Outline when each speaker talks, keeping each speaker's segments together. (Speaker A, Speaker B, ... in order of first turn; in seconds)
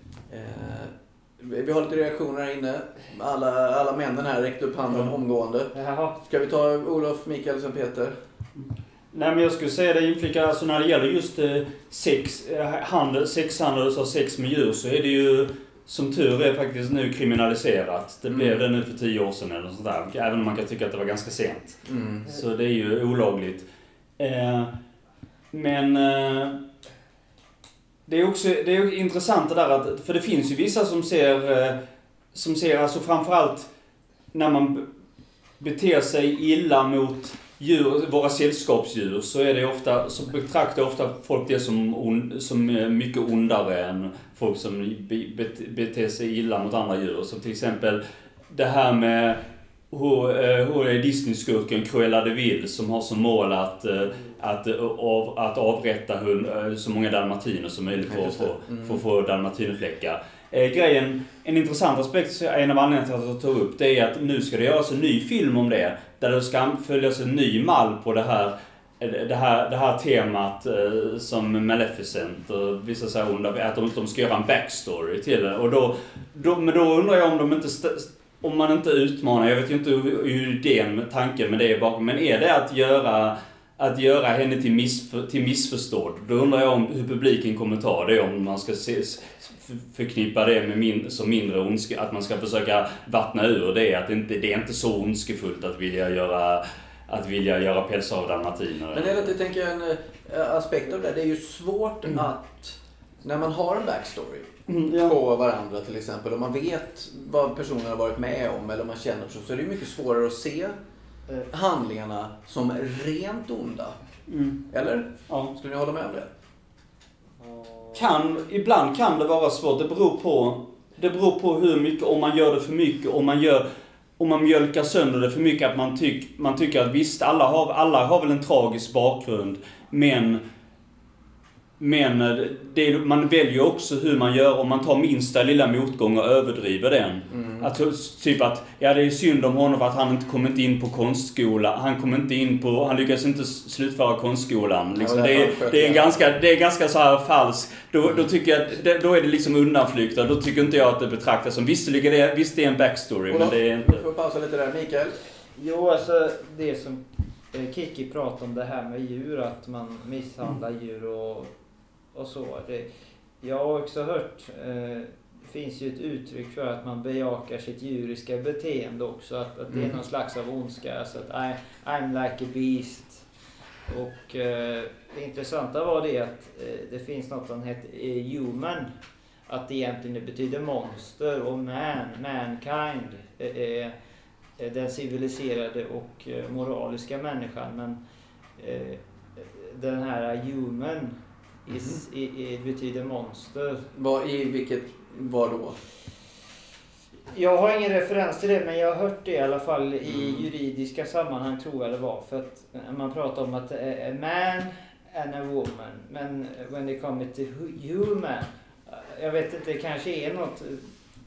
Speaker A: 0.3-8.2, 18.3-18.6, 21.9-22.3, 58.0-59.0, 98.9-110.8, 111.5-114.0, 114.7-116.3, 137.3-137.7, 145.0-146.3, 153.3-155.2, 191.7-192.0, 193.9-195.8, 200.1-200.5
Speaker B: 5.7-6.2, 117.4-118.1, 155.6-161.5, 162.1-162.9, 163.4-173.2, 173.9-178.9, 179.5-184.0, 184.6-188.0, 188.6-191.2, 191.7-193.8, 197.3-210.9
Speaker C: 8.6-23.7, 24.2-24.7, 25.5-26.6, 28.1-31.8, 32.3-33.7, 34.3-34.9, 35.6-99.3, 104.7-105.2, 114.3-114.6, 117.9-123.7, 124.2-130.4, 131.8-154.0